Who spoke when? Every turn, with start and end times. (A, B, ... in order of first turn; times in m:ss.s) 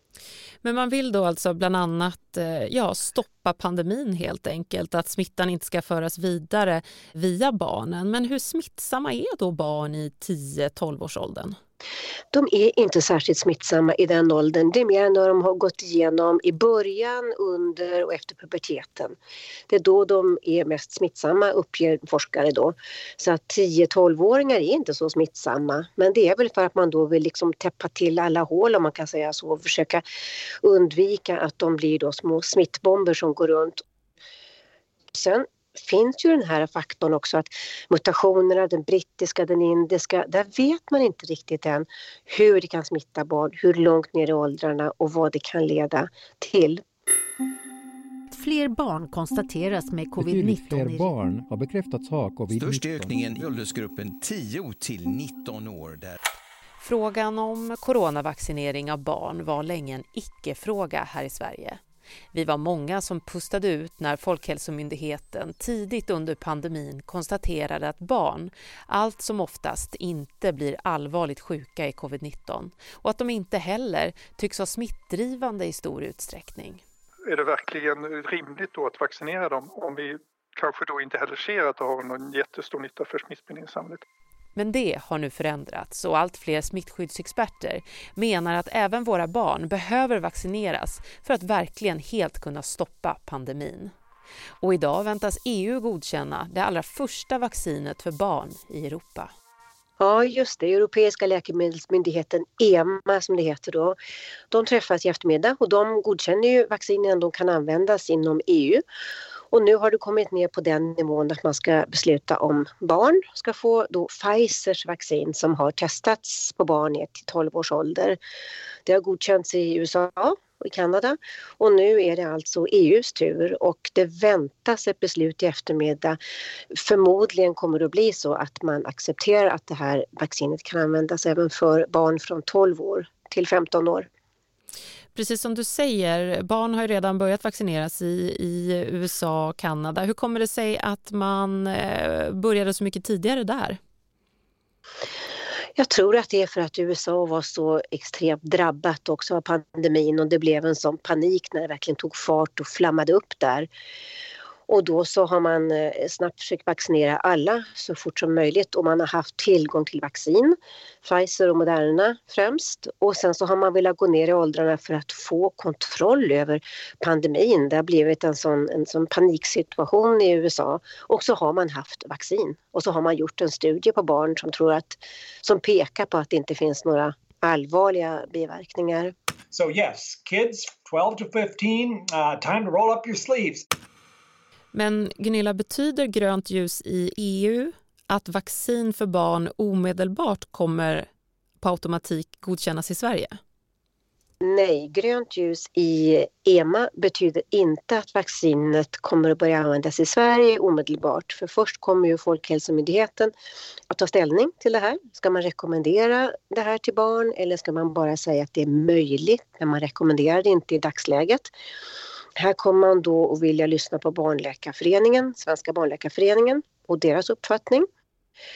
0:00.6-0:11.6 A
0:12.3-0:19.2 B
0:19.7-0:30.0 B
0:30.6-0:33.8 B
0:35.1-0:46.8 B
0:48.4-0:50.9 C
0:50.1-0:53.5 D
0:52.6-0:56.2 E
0:56.8-1:01.8 A
1:02.3-1:16.8 A
1:17.3-1:24.0 F
1:24.6-1:33.9 A
1:34.6-1:39.3 A
1:40.0-1:44.0 B
1:44.5-1:48.8 B
1:49.5-1:58.2 B
1:58.8-2:06.2 B
2:06.7-2:14.1 B
2:15.1-2:23.8 A
2:25.8-2:33.7 B
2:34.7-2:59.1 B
2:59.5-3:03.7 G
3:04.7-3:11.1 A
3:11.6-3:13.4 A
3:14.4-3:23.3 B
3:23.9-3:31.5 B
3:32.4-3:37.9 B